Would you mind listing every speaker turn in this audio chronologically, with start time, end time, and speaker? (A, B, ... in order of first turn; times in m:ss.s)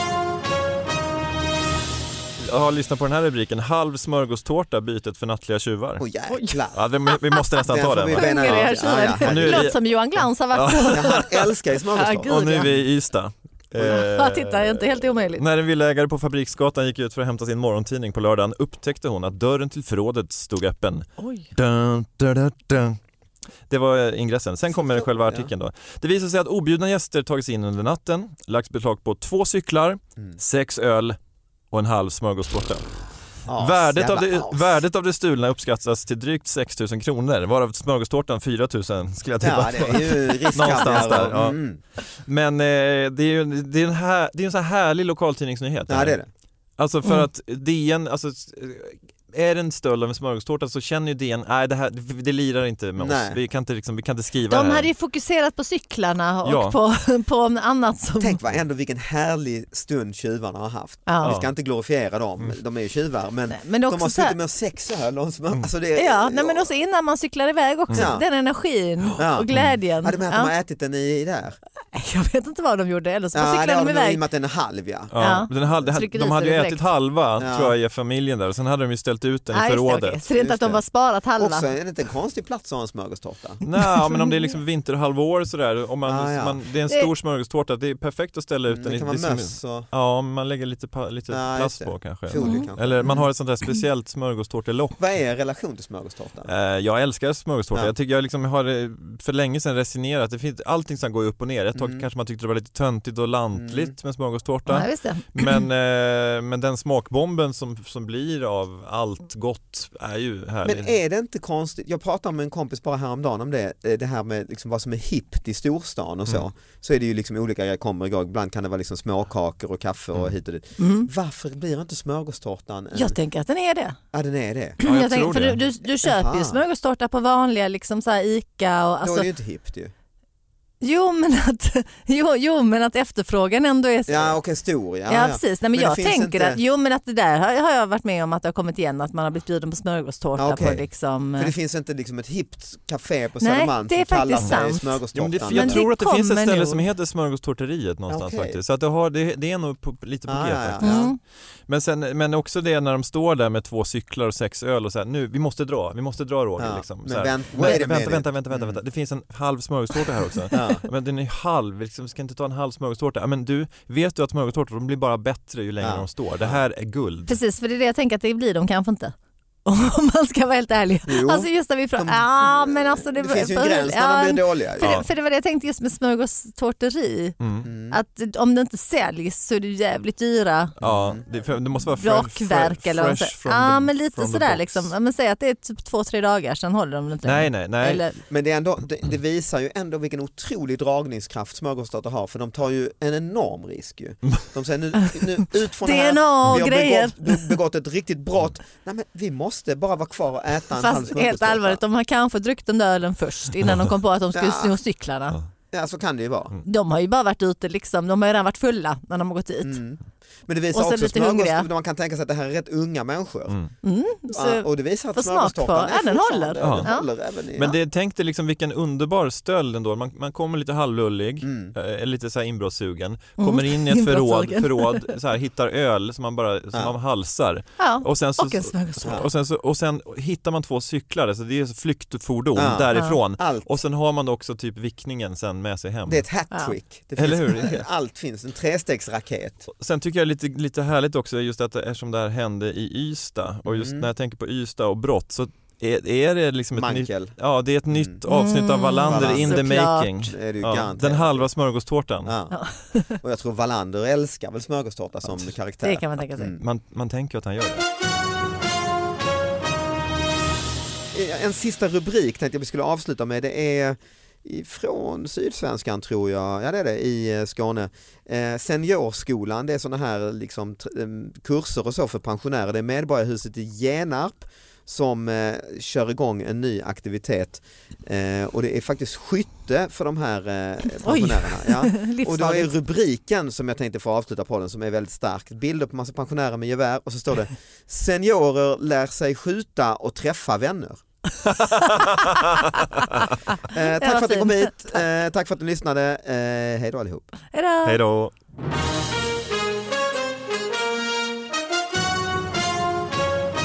0:02.4-0:06.1 A
0:06.0-0:06.8 B
0:06.3-0:06.6 C
0:06.7-0:11.5 A
0:07.1-0:07.4 C
0:07.6-0:09.7 B
0:08.1-0:11.3 C
0:10.9-0:12.7 B
0:11.9-0:12.7 C
0:12.3-0:23.0 A
0:13.8-0:15.4 C
0:21.2-0:21.5 C
0:23.7-0:31.2 A
0:24.7-0:25.5 B
0:31.7-0:32.9 A
0:33.4-0:34.8 B
0:33.6-0:41.5 A
0:39.4-0:41.8 B
0:40.6-0:41.0 C
0:42.2-0:46.2 A
0:45.9-0:46.3 B
0:46.8-0:54.9 A
0:53.0-0:53.4 B
0:54.5-0:58.4 C
0:56.4-0:56.8 A
0:58.2-1:06.7 B
1:01.0-1:01.4 C
1:01.2-1:01.5 A
1:03.5-1:04.4 C
1:06.0-1:10.5 C
1:07.9-1:08.2 B
1:09.2-1:09.5 B
1:10.0-1:11.6 B
1:11.9-1:14.2 C
1:13.3-1:15.1 B
1:15.1-1:20.4 A
1:15.2-1:16.8 C
1:17.4-1:17.7 B
1:19.5-1:21.7 C
1:20.4-1:20.8 B
1:21.4-1:23.6 B
1:23.6-1:35.0 A
1:24.0-1:24.3 C
1:26.0-1:26.6 B
1:28.7-1:29.9 B
1:31.3-1:33.3 B
1:32.4-1:32.7 C
1:35.0-1:36.5 B
1:36.4-1:50.9 A
1:41.8-1:42.0 B
1:43.5-1:43.9 B
1:44.7-1:45.6 C
1:50.6-2:03.2 B
2:00.8-2:01.1 C
2:02.9-2:04.0 C
2:04.1-2:04.8 B
2:04.8-2:09.3 C
2:04.8-2:05.6 A
2:06.0-2:06.6 B
2:09.0-2:09.9 B
2:10.8-2:14.4 C
2:14.1-2:16.6 B
2:15.1-2:21.5 C
2:20.4-2:25.8 B
2:23.4-2:24.8 C
2:24.4-2:31.1 A
2:25.4-2:26.8 C
2:28.1-2:28.6 B
2:30.3-2:31.1 B
2:30.8-2:31.2 C
2:31.7-2:47.4 A
2:36.6-2:38.8 B
2:40.5-2:40.8 B
2:45.8-2:46.6 B
2:47.2-2:49.1 C
2:49.6-3:00.8 C
2:51.0-2:55.0 B
2:57.4-2:57.7 A
2:57.6-2:58.0 B
3:00.8-3:04.9 A
3:00.8-3:01.2 B
3:02.0-3:08.2 C
3:07.2-3:08.0 A
3:08.3-3:21.8 B
3:15.8-3:17.5 C
3:20.7-3:25.4 C
3:24.3-3:24.8 B
3:25.7-3:26.5 B
3:26.6-3:29.8 C
3:29.6-3:33.6 B
3:30.7-3:31.7 C
3:33.8-3:37.1 C
3:34.3-3:37.7 B
3:36.6-3:36.9 A
3:37.5-3:56.2 A
3:41.4-3:41.7 B
3:43.4-3:45.1 C
3:47.8-3:49.2 C
3:52.5-3:53.7 B
3:52.9-3:53.2 C
3:56.0-3:59.6 B
3:57.2-3:57.8 A
3:59.7-4:12.3 A
4:03.6-4:04.1 B
4:06.7-4:07.3 B
4:07.9-4:08.2 B
4:08.3-4:10.1 C
4:09.1-4:09.6 B
4:10.2-4:11.5 B
4:12.2-4:12.5 B
4:12.5-4:13.2 C
4:13.2-4:16.6 B
4:15.8-4:16.6 C
4:16.6-4:17.8 A
4:21.1-4:51.0 B
4:40.8-4:42.7 C
4:51.4-4:53.3 A
4:51.8-4:52.0 C
4:53.6-4:57.2 B
4:53.7-4:55.0 C
4:57.5-4:58.0 C
4:57.8-4:58.3 A